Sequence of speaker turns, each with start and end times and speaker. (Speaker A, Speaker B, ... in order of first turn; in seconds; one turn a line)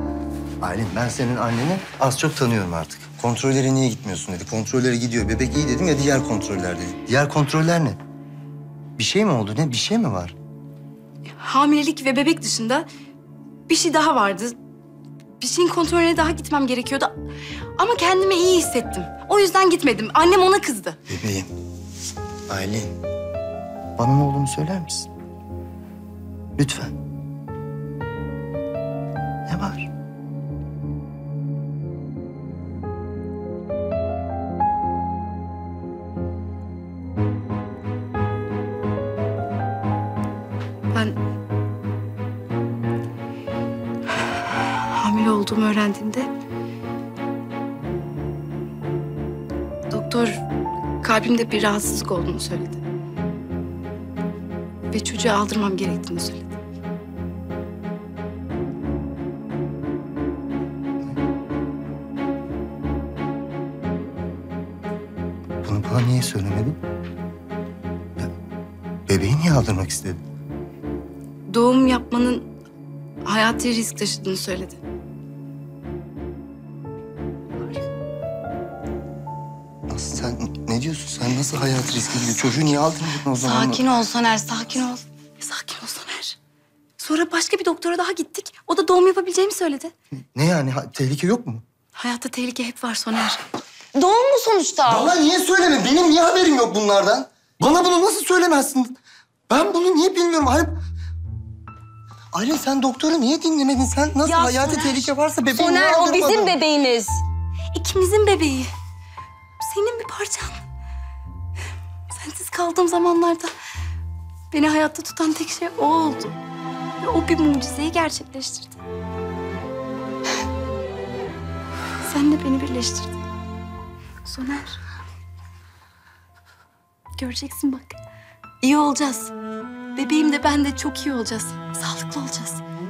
Speaker A: 0.6-8.0
Speaker A: 9.0-10.3
Speaker B: 11.4-12.9
Speaker B: 13.7-14.6
Speaker B: 15.4-17.1
Speaker B: 17.8-21.0
Speaker A: 21.1-21.5
Speaker A: 22.5-22.9
Speaker A: 24.0-25.1
Speaker A: 26.6-26.9
Speaker A: 29.5-29.9
Speaker B: 40.9-41.2
Speaker B: 44.4-46.3
Speaker B: 49.9-50.4
Speaker B: 51.0-52.8
Speaker B: 54.9-56.5
Speaker A: 65.6-66.8
Speaker A: 69.1-70.2
Speaker B: 71.5-72.5
Speaker B: 73.2-74.8
Speaker A: 79.9-83.8
Speaker B: 83.4-86.4
Speaker B: 87.0-89.9
Speaker A: 90.3-91.6
Speaker B: 92.0-93.4
Speaker C: 94.0-95.1
Speaker A: 94.8-99.0
Speaker A: 99.5-100.8
Speaker A: 102.3-106.5
Speaker C: 104.3-104.7
Speaker C: 105.5-107.2
Speaker B: 107.7-108.7
Speaker B: 109.6-110.6
Speaker B: 112.1-113.5
Speaker B: 114.5-116.3
Speaker B: 117.0-118.8
Speaker B: 122.0-123.2
Speaker B: 124.2-124.8
Speaker B: 127.2-128.0
Speaker B: 128.6-129.3
Speaker B: 129.9-132.6